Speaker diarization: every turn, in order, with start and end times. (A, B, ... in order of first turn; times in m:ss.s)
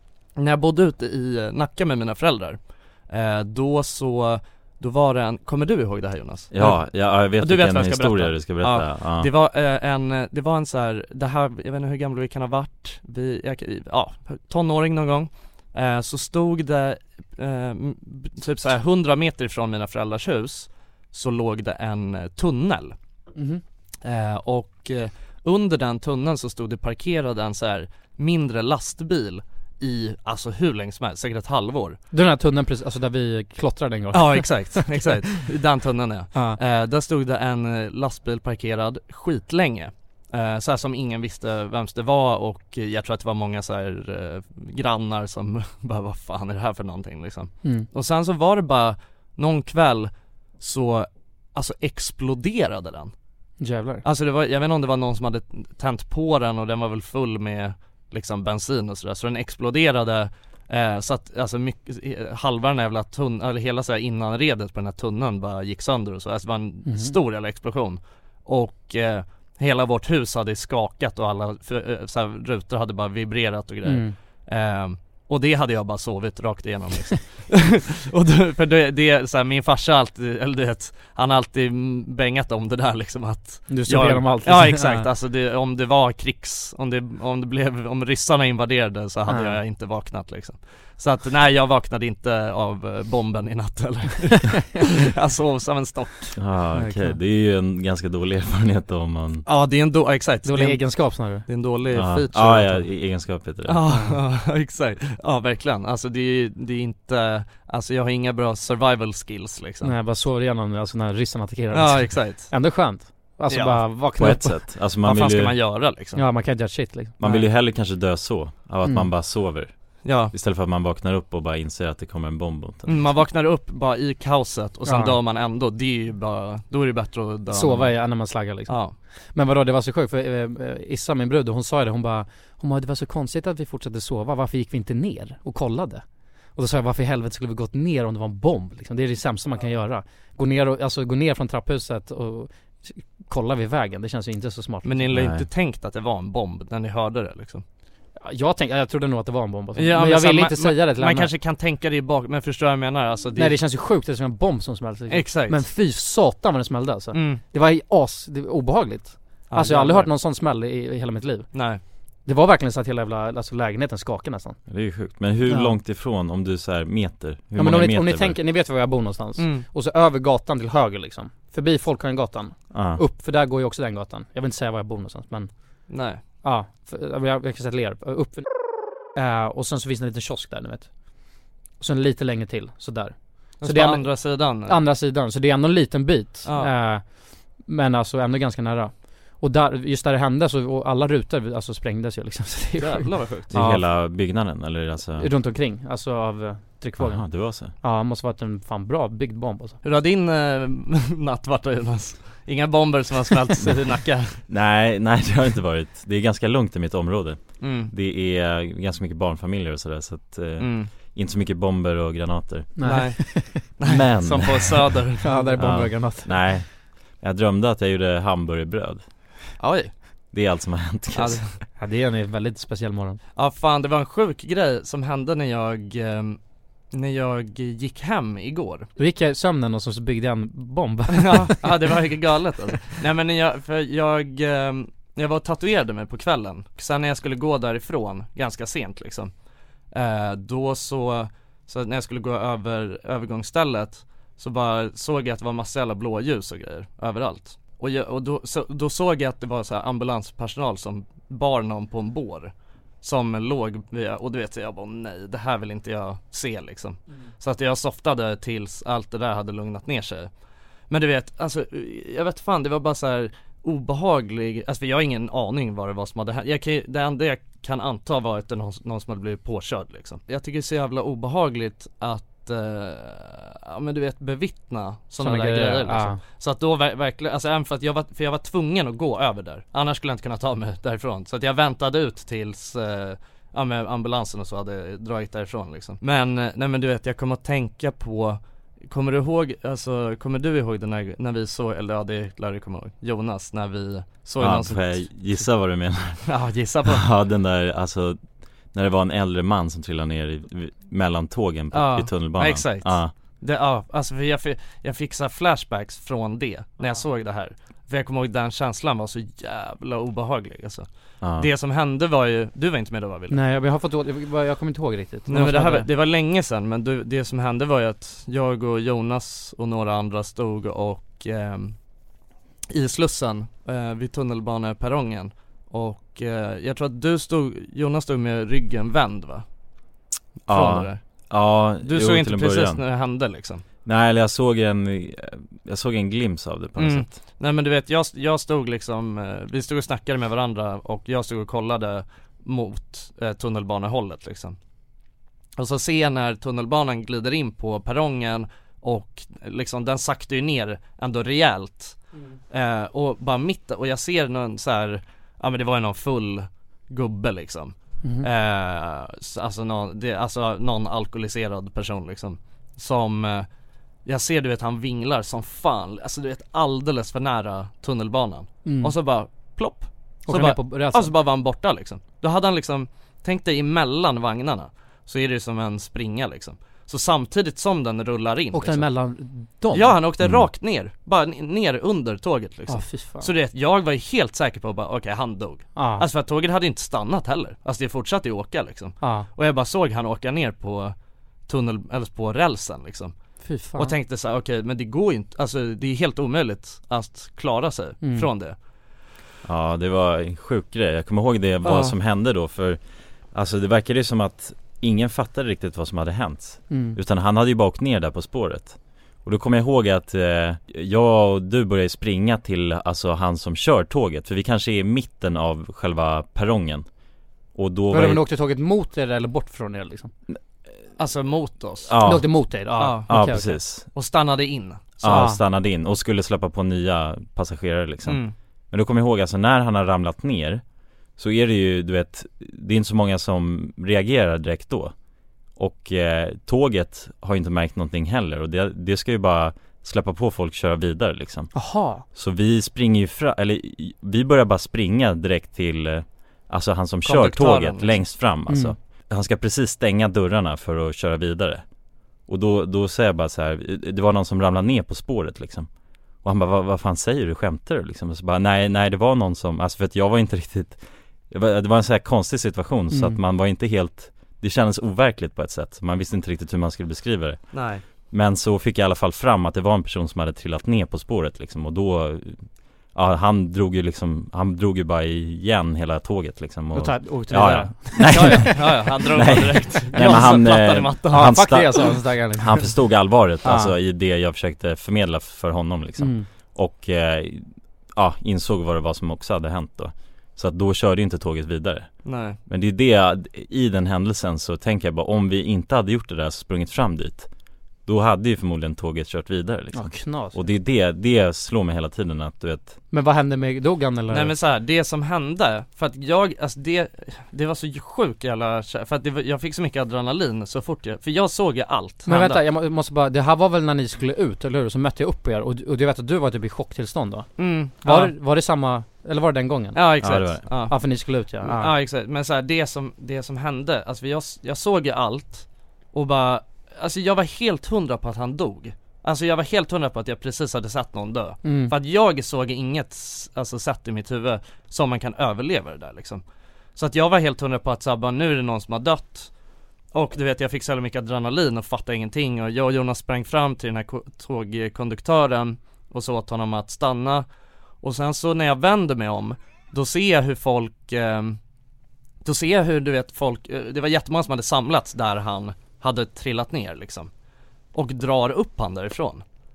0:00.4-0:22.9 A
0:06.5-0:09.3 B
0:23.4-0:23.6 C
0:24.0-0:32.0 A
0:32.1-0:35.0 C
0:34.1-0:53.1 A
0:36.3-0:36.6 C
0:53.6-0:54.0 C
0:54.0-1:37.0 A
1:06.9-1:07.1 C
1:13.9-1:14.1 C
1:23.7-1:25.1 C
1:29.3-1:29.6 C
1:36.4-1:39.5 B
1:39.5-1:42.8 A
1:40.4-1:41.4 C
1:41.9-1:43.8 B
1:43.6-1:49.9 A
1:43.9-1:44.2 C
1:49.8-1:54.6 C
1:51.7-1:52.5 A
1:53.5-1:53.8 A
1:54.2-1:55.6 B
1:55.0-1:56.2 A
1:56.2-1:57.5 C
1:57.2-2:03.1 B
2:00.0-2:00.3 A
2:02.9-2:08.0 A
2:04.9-2:05.2 C
2:07.5-2:16.0 C
2:08.7-2:09.0 A
2:16.6-2:25.0 C
2:24.8-2:27.6 A
2:25.1-2:25.5 B
2:28.2-2:31.3 C
2:29.8-2:33.6 A
2:33.4-2:41.6 C
2:35.1-2:35.6 A
2:37.1-2:37.4 A
2:39.5-2:40.1 A
2:41.5-2:41.8 A
2:42.2-2:44.6 C
2:44.7-2:48.4 B
2:45.5-2:45.7 C
2:47.6-2:55.5 C
2:49.4-2:49.6 A
2:52.7-2:53.0 B
2:55.9-2:56.2 A
2:56.4-3:00.9 C
3:01.8-3:13.8 C
3:03.6-3:04.8 A
3:06.4-3:06.7 A
3:12.8-3:13.5 A
3:13.5-3:15.3 B
3:15.2-3:19.8 C
3:17.0-3:17.7 B
3:19.8-3:24.4 A
3:24.5-3:33.2 B
3:27.6-3:27.9 A
3:30.6-3:30.9 A
3:32.8-3:33.6 C
3:32.8-3:35.6 A
3:33.8-3:35.0 B
3:35.2-3:36.4 C
3:35.6-3:39.0 B
3:39.6-3:39.9 A
3:40.3-3:41.4 B
3:41.1-3:41.6 A
3:41.8-3:43.2 C
3:43.4-3:46.4 A
3:46.9-3:48.9 A
3:49.0-3:51.9 C
3:51.1-3:59.3 A
3:59.9-4:20.3 A
4:20.9-4:55.4 A
4:35.2-4:36.2 C
4:54.4-4:56.3 B
4:56.2-4:57.0 A
4:56.8-4:58.2 B
4:58.7-5:03.1 B
5:01.7-5:10.9 A
5:11.2-5:11.5 B
5:11.4-5:13.4 A
5:13.3-5:15.9 C
5:15.3-5:21.8 A
5:22.7-5:29.4 A
5:30.5-5:31.0 A
5:30.5-5:32.8 B
5:31.8-5:33.6 A
5:33.9-5:37.1 B
5:36.8-5:44.6 A
5:45.6-5:52.0 A
5:52.5-6:03.5 A
6:04.0-6:18.9 A
6:08.6-6:08.9 C
6:10.3-6:11.1 C
6:18.5-6:20.0 C
6:19.7-6:30.9 A
6:20.2-6:20.5 B
6:22.7-6:23.3 C
6:25.8-6:26.0 C
6:29.0-6:29.3 C
6:31.5-6:33.1 A
6:33.4-6:33.9 C
6:33.8-6:38.6 A
6:38.0-6:38.3 C
6:39.4-6:42.8 B
6:41.6-6:42.0 A
6:43.3-6:56.9 B
6:46.7-6:47.0 C
6:57.5-6:58.2 B
6:57.9-7:00.1 C
7:01.0-7:02.0 A
7:01.9-7:02.5 B
7:02.0-7:03.6 C
7:02.8-7:03.1 A
7:03.1-7:03.9 B
7:04.0-7:05.2 A
7:05.0-7:10.6 B
7:05.0-7:05.4 C
7:08.0-7:08.3 A
7:11.2-7:14.9 B
7:15.6-7:21.5 B
7:21.5-7:22.0 C
7:22.1-7:31.6 B
7:27.0-7:28.0 A
7:28.5-7:28.8 C
7:32.3-7:35.7 B
7:36.2-7:47.6 B
7:42.9-7:43.2 C
7:47.5-7:47.8 A
7:48.1-8:11.9 B
7:56.7-7:58.8 C
7:58.0-8:01.6 A
8:00.0-8:00.3 C
8:01.1-8:02.8 C
8:03.4-8:03.7 C
8:06.0-8:06.3 C
8:12.0-8:12.4 A
8:12.5-8:17.3 B
8:17.9-8:22.8 B
8:19.7-8:20.4 C
8:22.9-8:24.4 C
8:24.1-8:32.4 A
8:32.1-8:37.3 C
8:37.4-8:38.1 A
8:37.8-8:39.8 C
8:39.8-8:40.8 A
8:40.0-8:40.4 B
8:40.5-8:41.7 C
8:41.4-8:56.2 A
8:51.4-8:51.7 C
8:56.8-8:59.3 A
8:59.9-9:07.2 A
9:07.8-9:11.4 A
9:12.2-9:17.1 A
9:17.7-9:19.2 A